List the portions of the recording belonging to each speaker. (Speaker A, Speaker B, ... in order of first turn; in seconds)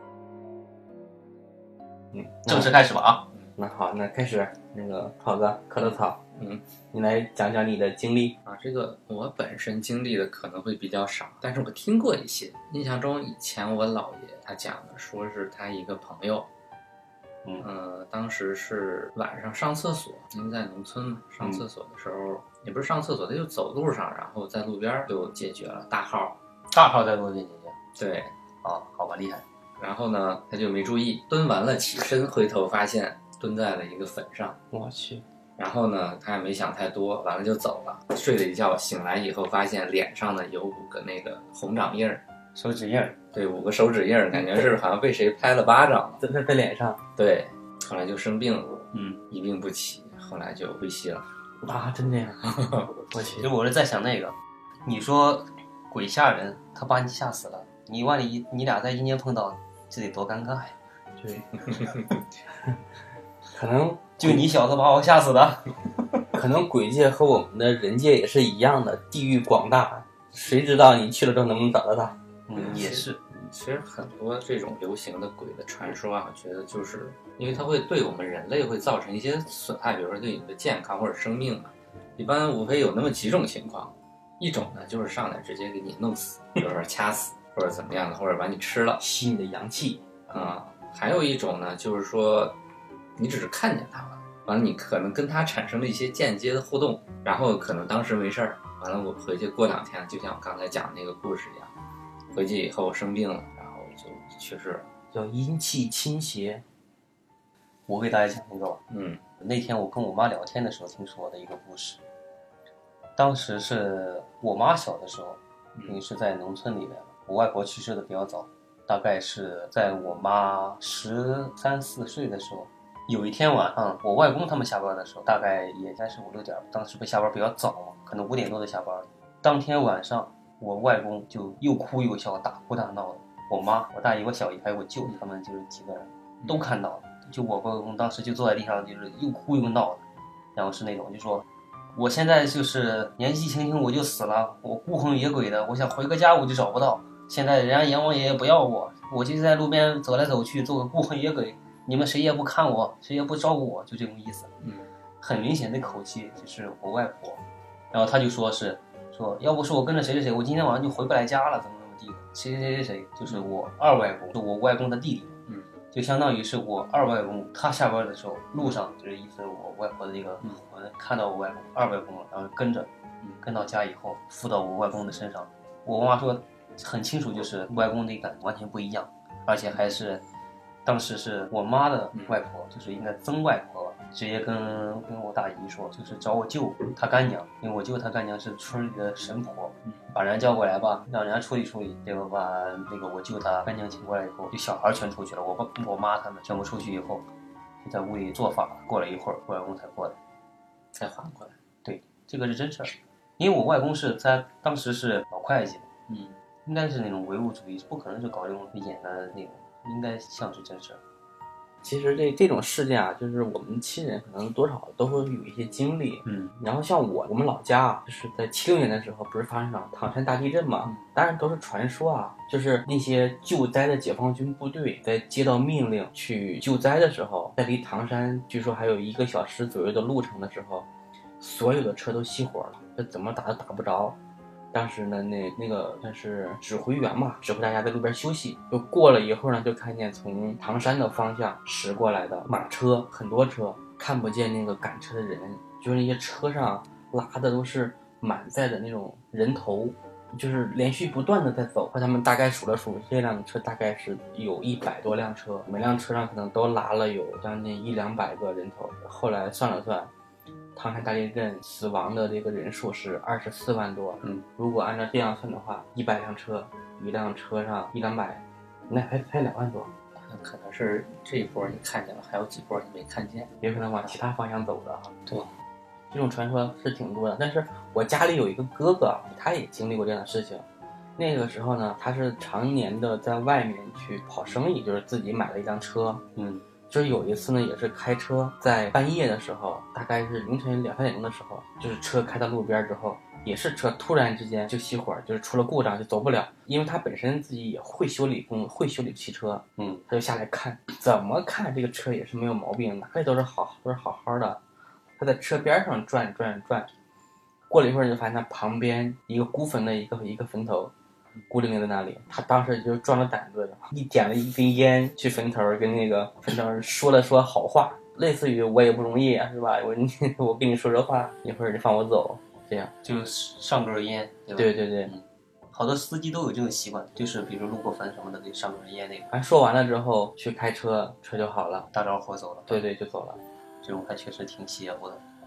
Speaker A: 2.1-2.8, 3.6-6.2, 6.9-8.4, 34.7-35.2, 46.2-47.0, 51.6-52.5, 53.1-53.5, 61.2-61.9, 63.5-64.4, 66.3-72.2, 89.0-90.5, 105.1-106.6, 211.8-230.9, 231.4-234.2, 234.7-260.1, 260.8-269.9, 273.6-275.3, 276.1-280.6, 281.2-286.2, 286.9-304.6, 305.2-306.9, 307.7-310.9, 311.5-322.9, 324.6-325.1, 329.3-331.9, 332.7-333.4
Speaker B: 2.5-3.3, 26.7-27.8, 28.6-29.4, 42.6-43.2, 48.9-49.2, 53.4-60.8, 64.2-65.7, 72.5-73.2, 107.9-108.8, 109.4-112.0, 113.2-140.0, 140.6-154.5, 155.2-165.3, 165.9-172.9, 173.4-180.2, 180.8-197.3, 197.8-200.2, 201.8-205.9, 206.7-211.0, 216.2-216.5, 286.4-286.6, 299.8-300.0, 323.0-329.3, 331.9-332.8, 333.8-335.2
Speaker C: 6.4-6.6, 8.5-16.5, 17.6-26.4, 28.0-28.3, 29.8-34.6, 35.6-42.2, 43.3-46.2, 47.2-51.2, 52.5-52.9, 72.6-89.0, 90.3-92.6, 93.2-101.7, 102.3-104.9, 108.9-109.2, 115.8-116.0, 154.6-154.9, 201.0-201.6, 206.1-206.4, 270.3-274.1